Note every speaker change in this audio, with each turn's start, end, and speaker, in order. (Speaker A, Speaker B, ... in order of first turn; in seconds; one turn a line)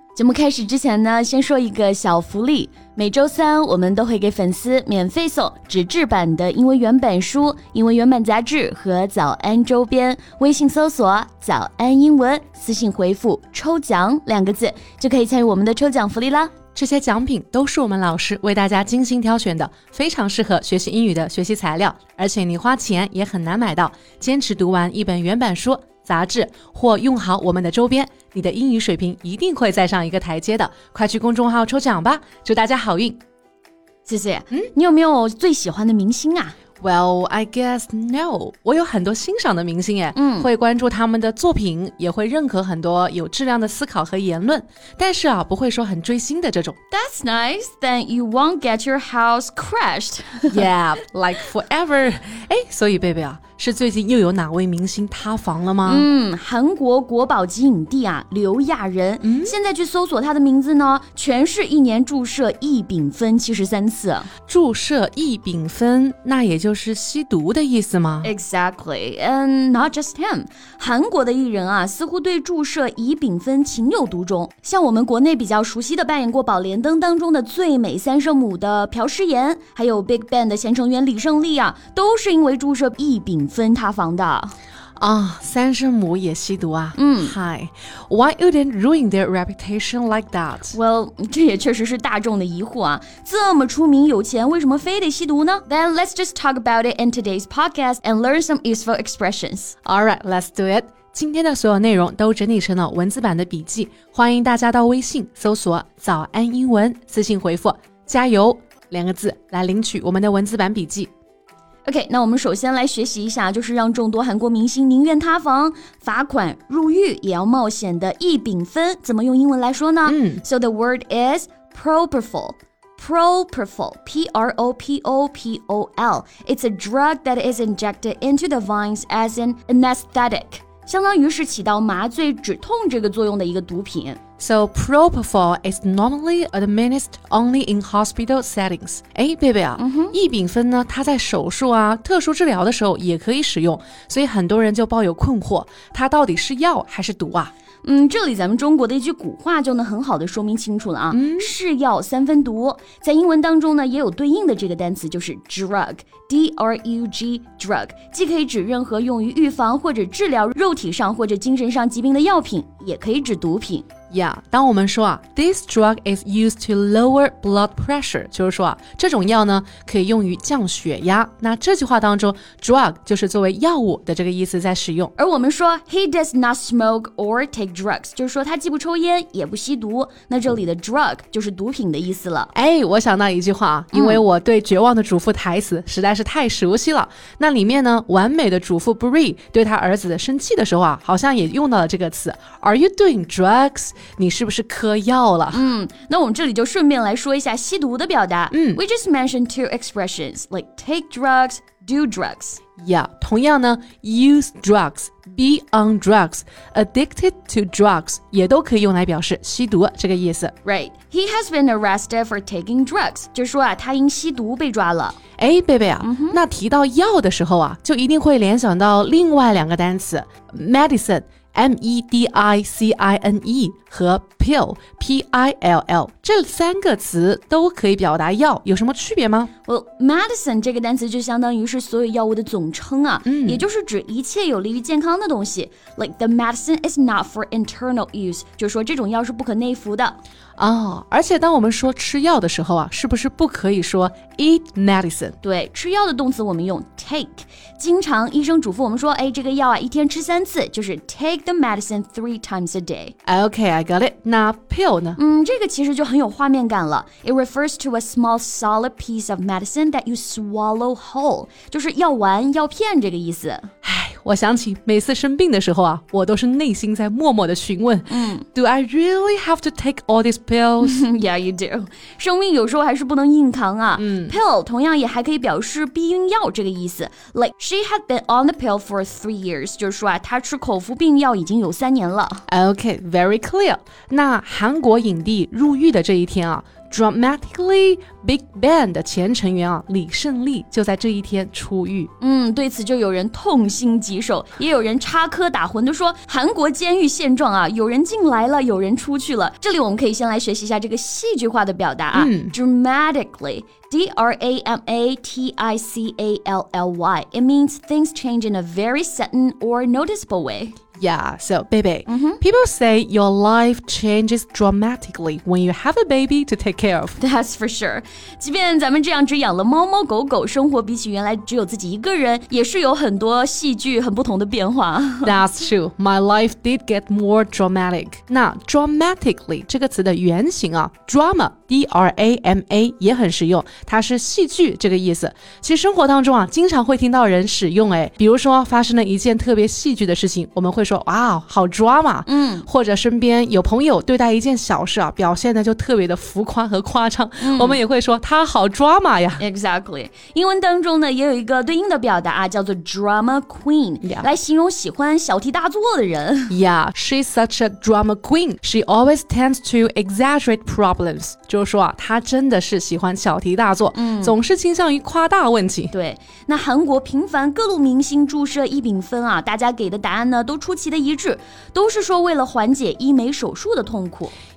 Speaker A: 0.1-16.5
Speaker B: 16.8-33.2
Speaker A: 34.1-36.5
Speaker B: 36.8-46.8
Speaker A: 40.1-40.5
Speaker A: 46.9-50.6
Speaker B: 50.5-56.1
Speaker A: 55.8-64.3
Speaker B: 59.2-59.5
Speaker B: 64.5-68.3
Speaker A: 68.2-84.5
Speaker B: 85.0-90.8
Speaker A: 87.0-87.4
Speaker A: 90.7-99.7
Speaker B: 99.8-111.1
Speaker A: 111.8-134.2
Speaker B: 120.0-120.4
Speaker B: 134.4-147.5
Speaker A: 139.8-140.2
Speaker A: 147.8-163.9
Speaker B: 151.1-151.5
Speaker B: 164.1-175.1
Speaker A: 175.2-182.5
Speaker B: 182.5-195.6
Speaker A: 183.9-184.2
Speaker A: 195.5-202.6
Speaker B: 198.5-198.8
Speaker B: 202.8-210.5
Speaker A: 210.6-215.2
Speaker B: 215.4-229.5
Speaker A: 216.0-216.4
Speaker A: 229.7-240.2
Speaker B: 233.3-233.7
Speaker B: 240.6-245.4
Speaker A: 245.4-253.1
Speaker B: 253.3-255.2
Speaker A: 255.2-263.7
Speaker B: 263.8-271.0
Speaker A: 268.1-268.4
Speaker A: 270.8-282.4
Speaker B: 273.9-274.4
Speaker B: 282.5-292.1
Speaker A: 292.2-310.8
Speaker B: 302.1-302.6
Speaker B: 311.0-317.2
Speaker A: 312.1-312.4
Speaker A: 317.2-325.4
Speaker B: 325.2-349.4
Speaker A: 342.3-342.7
Speaker A: 347.4-347.8
Speaker A: 349.4-356.5
Speaker B: 354.0-354.3
Speaker B: 356.5-365.9
Speaker A: 363.9-364.4
Speaker A: 365.9-374.3